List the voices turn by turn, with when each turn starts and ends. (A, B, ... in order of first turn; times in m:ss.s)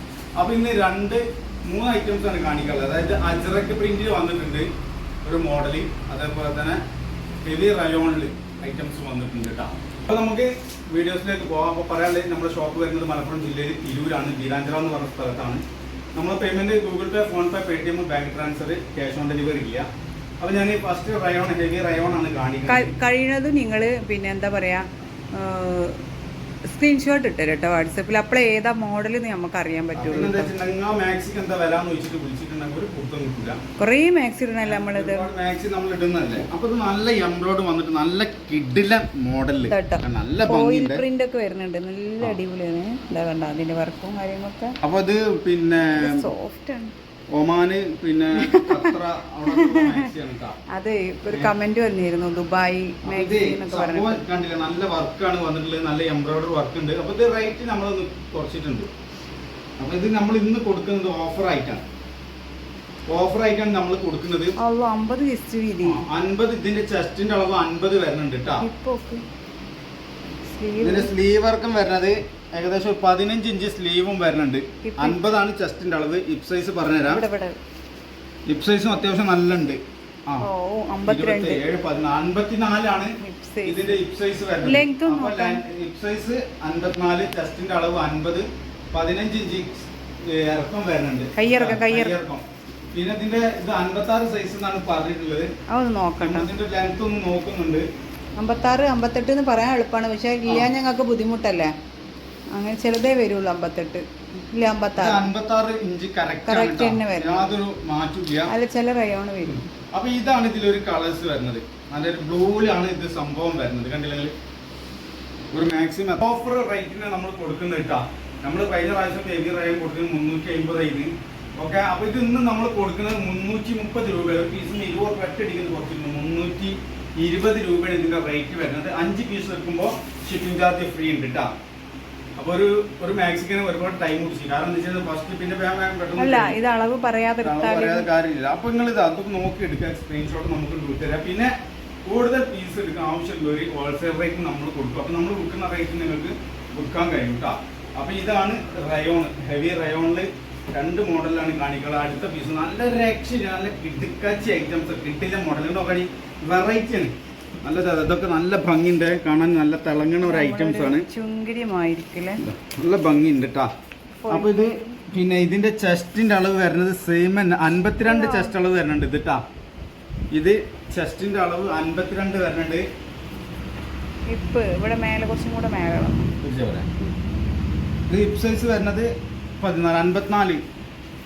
0:00.4-0:04.7 A
0:05.2-0:06.8 A
0:07.4-0:15.6 A
0:16.1-0:19.9 A
0:20.4-0:22.9 A
0:22.6-0:26.0 B
0:26.7-0:30.5 B
0:29.9-0:33.6 A
0:33.8-0:35.3 B
0:34.6-0:41.0 A
0:39.7-0:44.8 B
0:44.8-0:46.2 A
0:46.0-0:46.9 B
0:47.3-0:50.6 A
0:48.4-0:49.0 B
0:49.5-0:50.1 B
0:50.7-0:54.2 B
0:53.0-0:58.9 A
0:59.8-1:01.8 A
1:03.1-1:04.6 A
1:04.6-1:06.0 B
1:05.8-1:08.6 A
1:08.6-1:09.2 B
1:10.4-1:11.1 B
1:10.8-1:17.2 A
1:14.8-1:15.2 B
1:17.1-1:17.6 B
1:18.5-1:20.5 A
1:20.4-1:21.6 B
1:21.0-1:35.5 A
1:23.2-1:24.0 B
1:24.6-1:25.6 B
1:31.3-1:32.1 B
1:35.7-1:36.5 B
1:36.2-1:37.8 A
1:38.4-1:41.7 B
1:42.5-1:45.3 B
1:45.0-1:48.5 A
1:46.4-1:47.6 B
1:48.5-1:49.7 B
1:49.9-1:54.3 A
1:55.5-2:11.5 A
2:12.4-2:16.6 A
2:16.2-2:18.1 B
2:17.4-2:21.5 A
2:22.0-2:41.1 A
2:40.2-2:42.4 B
2:42.4-2:43.7 A
2:44.2-2:45.0 B
2:44.3-2:49.4 A
2:48.0-2:48.5 B
2:50.3-2:52.8 A
2:54.3-2:56.3 B
2:56.4-2:56.8 A
2:58.1-2:59.1 A
2:59.6-3:00.6 A